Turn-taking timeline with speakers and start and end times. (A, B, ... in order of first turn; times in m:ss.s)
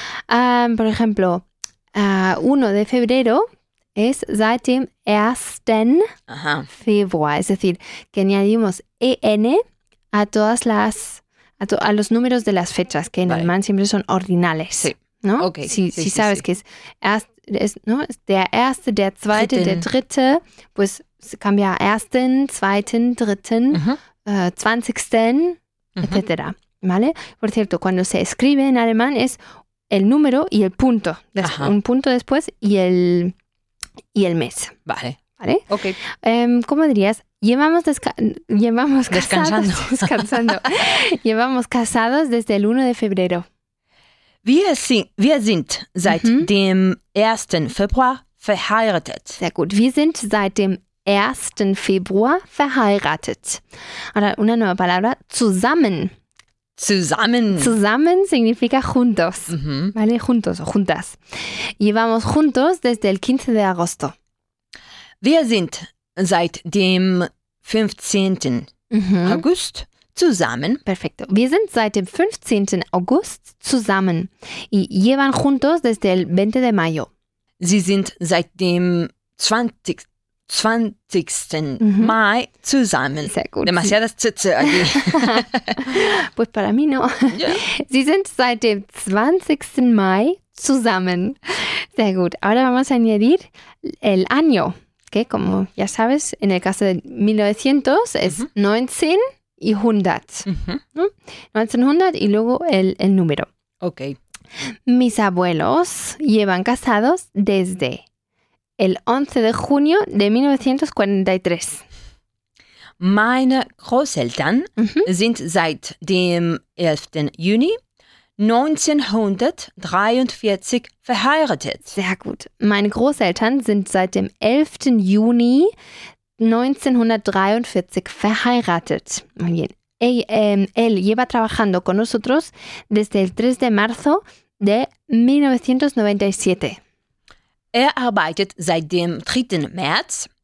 0:00.3-0:06.1 A
0:06.3-0:06.7 B
0:06.7-0:33.3 A
0:14.8-0:16.4 B
0:19.3-0:19.9 B
0:23.7-0:24.0 B
0:26.0-0:26.2 B
0:31.4-0:31.7 B
0:34.1-0:34.8 A
0:34.8-0:36.0 B
0:35.4-0:43.4 A
0:39.1-0:40.5 B
0:44.4-0:49.4 B
0:46.1-0:46.5 A
0:49.4-0:53.6 A
0:54.1-0:56.1 A
0:56.8-0:57.7 B
0:57.5-1:04.1 A
0:59.5-0:59.9 B
1:05.2-1:08.7 B
1:08.9-1:09.4 A
1:09.2-1:10.8 B
1:10.8-1:17.1 A
1:17.6-1:26.0 B
1:21.8-1:22.1 A
1:23.2-1:23.9 A
1:24.6-1:43.5 A
1:27.3-1:27.6 B
1:40.5-1:40.8 B
1:43.8-1:44.2 B
1:44.9-1:48.0 A
1:48.8-1:51.8 A
1:53.0-1:57.8 B
1:54.8-1:55.1 A
1:58.4-2:02.0 B
2:01.9-2:05.7 A
2:06.4-2:16.8 A
2:17.7-2:20.3 B